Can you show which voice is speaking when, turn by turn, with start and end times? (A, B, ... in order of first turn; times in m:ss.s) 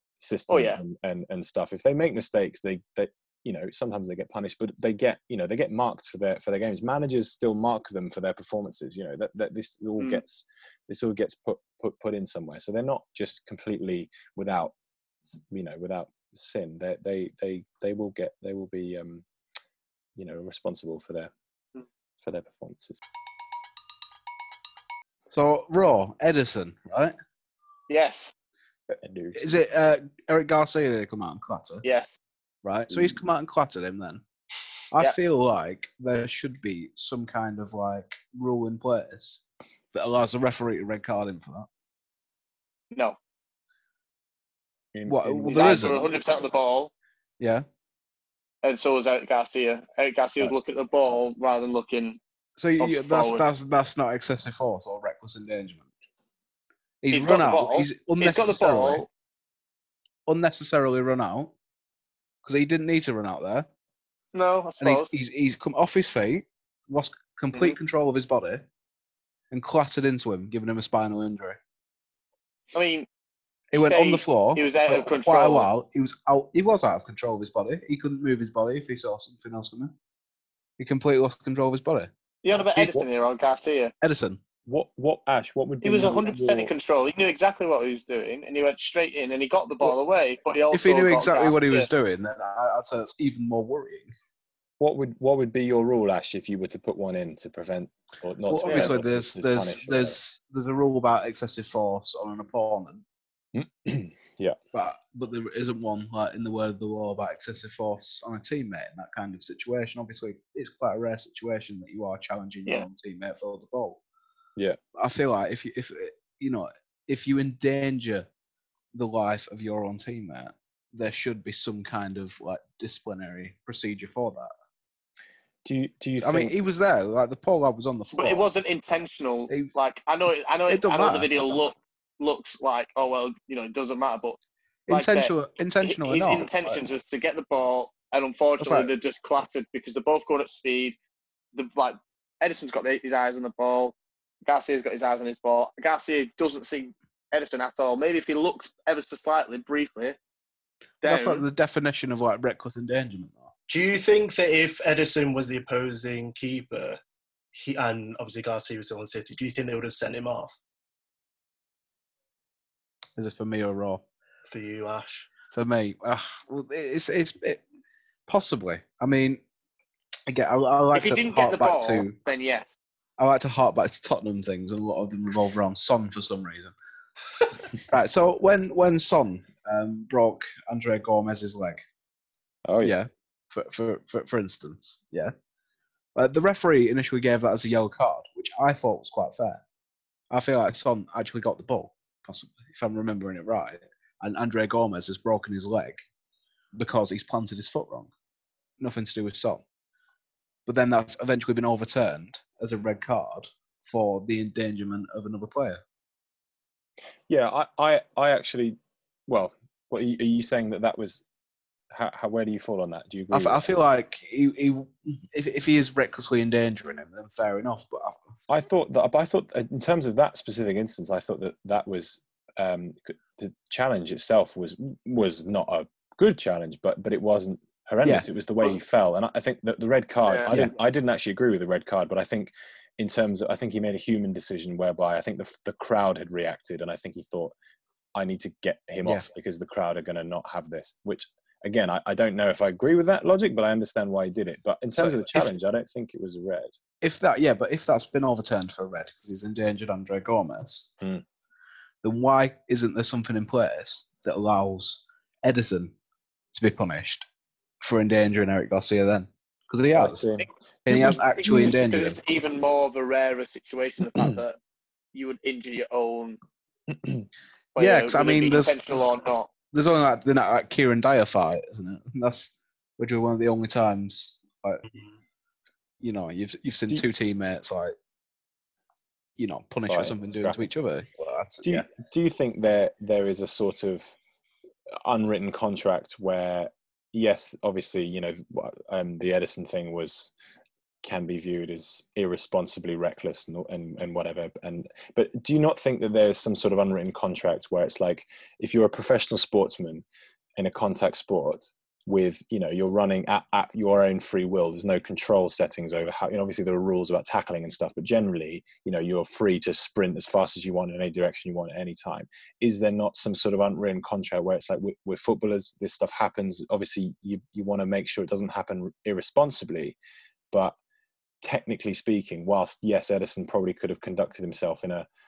0:00.2-0:14.7 A
0:00.5-0:00.8 B
0:15.3-0:19.2 A
0:20.2-0:21.3 A
0:22.2-0:23.0 A
0:25.3-0:27.2 C
0:27.9-0:28.3 B
0:29.0-0:29.6 A
0:29.4-0:31.8 C
0:31.8-0:32.2 B
0:32.6-0:34.2 C
0:34.9-0:39.4 C
0:39.9-0:41.7 C
0:44.9-0:46.1 A
0:45.1-0:46.0 C
0:45.5-0:46.9 B
0:47.4-0:47.6 C
0:48.6-0:52.2 B
0:52.6-0:55.9 C
0:52.8-0:53.4 B
0:57.0-0:59.1 C
0:57.1-0:59.1 B
1:00.3-1:01.5 C
1:02.4-1:03.7 C
1:04.3-1:05.1 B
1:04.8-1:08.7 C
1:09.5-1:11.6 C
1:12.7-1:13.1 B
1:13.7-1:19.9 C
1:13.7-1:15.7 B
1:20.8-1:22.1 C
1:22.4-1:23.9 B
1:22.6-1:23.1 A
1:24.0-1:24.4 C
1:24.7-1:26.7 A
1:25.8-1:31.9 B
1:30.7-1:34.1 C
1:34.8-1:40.2 A
1:38.5-1:43.0 C
1:38.7-1:38.9 B
1:43.5-1:44.6 A
1:44.7-1:54.0 C
1:55.0-1:58.3 C
1:58.9-2:04.5 C
2:05.6-2:06.6 A
2:06.2-2:08.5 C
2:08.2-2:14.4 B
2:10.7-2:11.3 C
2:14.9-2:16.8 C
2:14.9-2:21.0 B
2:18.6-2:18.9 C
2:21.6-2:30.2 B
2:31.0-2:31.4 B
2:31.0-2:33.5 C
2:33.7-2:37.0 D
2:37.5-2:40.6 D
2:43.2-2:44.0 C
2:44.5-2:45.3 D
2:45.5-2:47.6 C
2:48.3-2:49.4 C
2:50.3-2:52.2 C
2:50.9-2:52.7 B
2:53.2-2:56.8 C
2:57.9-3:01.8 C
3:02.6-3:03.0 A
3:02.8-3:05.3 C
3:06.2-3:09.6 C
3:10.3-3:16.0 C
3:16.8-3:18.1 C
3:18.8-3:19.6 C
3:20.7-3:25.8 C
3:27.3-3:28.8 A
3:29.3-3:31.2 A
3:31.9-3:33.6 A
3:33.3-3:38.2 C
3:38.5-3:57.5 A
3:50.3-3:50.5 B
3:58.2-4:06.7 A
4:05.0-4:05.5 C
4:07.0-4:10.9 C
4:12.0-4:15.9 C
4:16.5-4:17.2 C
4:17.8-4:20.3 C
4:20.0-4:21.2 A
4:20.9-4:22.2 C
4:21.4-4:24.6 B
4:25.1-4:26.4 B
4:26.9-4:27.3 A
4:27.8-4:29.5 B
4:27.8-4:28.8 C
4:29.7-4:34.8 C
4:36.0-4:38.0 C
4:39.4-4:41.9 C
4:39.8-4:40.7 A
4:41.6-4:44.1 A
4:45.0-4:50.3 A
4:51.0-5:00.0 A
5:00.6-5:20.0 A
5:21.4-5:25.1 A